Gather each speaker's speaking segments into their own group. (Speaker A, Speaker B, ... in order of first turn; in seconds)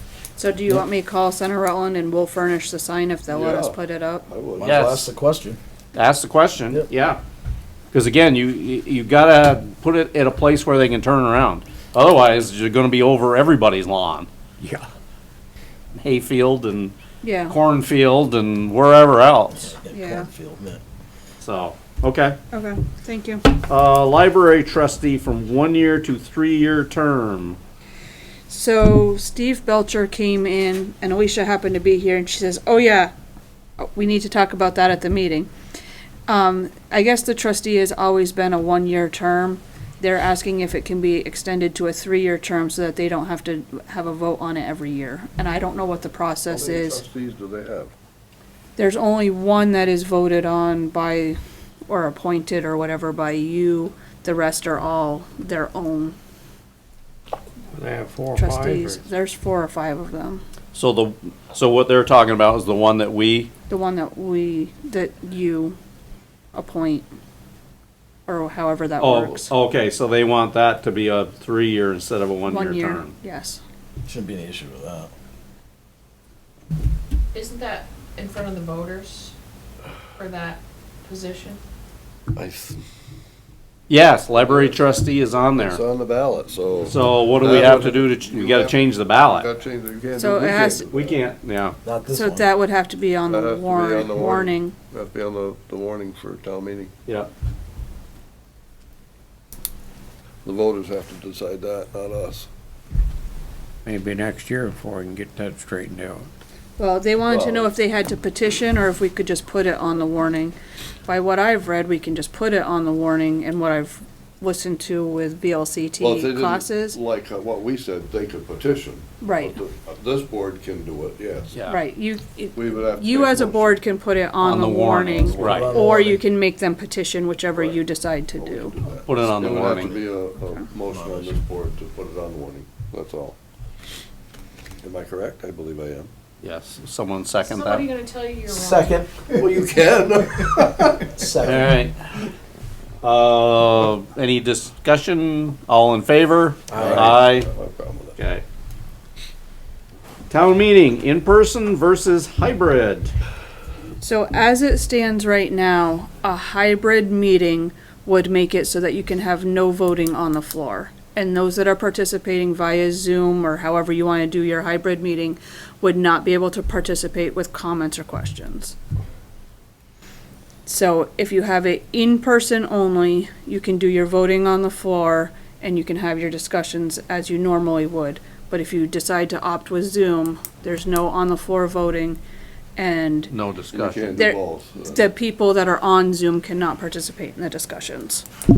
Speaker A: 0.4-4.2, 17.2-17.6, 19.9-20.3, 22.5-23.5, 28.5-33.1, 33.9-35.5, 36.3-47.0, 48.8-56.2, 58.4-60.4, 63.7-65.8, 66.5-67.1, 68.3-69.5, 72.5-73.6, 90.2-90.8, 92.1-94.8, 106.8-117.0, 119.2-119.5, 121.7-128.7, 154.0-168.8, 170.7-182.2, 182.8-183.3, 184.2-188.2
Speaker B: 3.3-5.0, 46.5-47.9, 82.3-82.8, 84.3-84.8, 85.5-91.2, 93.3-96.9, 100.4-102.5, 107.3-107.7, 116.0-121.5, 122.5-123.8, 125.2-125.8, 128.3-133.4, 134.8-136.1, 139.3-141.1, 146.7-148.2, 183.7-185.1
Speaker C: 4.6-5.6, 19.6-20.8, 74.0-75.1, 91.8-92.5, 125.4-126.2, 130.9-131.4, 138.5-139.5, 140.9-141.8, 146.7-147.2
Speaker D: 4.6-5.1, 5.9-7.2, 7.9-14.3, 16.0-16.9, 17.5-19.7, 21.4-22.4, 23.7-27.6, 60.7-63.5, 69.0-73.1, 83.9-85.8, 86.9-89.5, 90.8-91.8, 121.5-121.8, 124.4-125.7, 129.1-130.0, 136.4-137.9, 141.4-141.9, 143.0-147.5, 148.2-148.4, 150.3-153.1, 183.3-184.2
Speaker E: 14.6-14.9, 57.7-59.0, 103.8-106.3
Speaker F: 77.3-79.3, 80.2-81.6, 137.4-139.0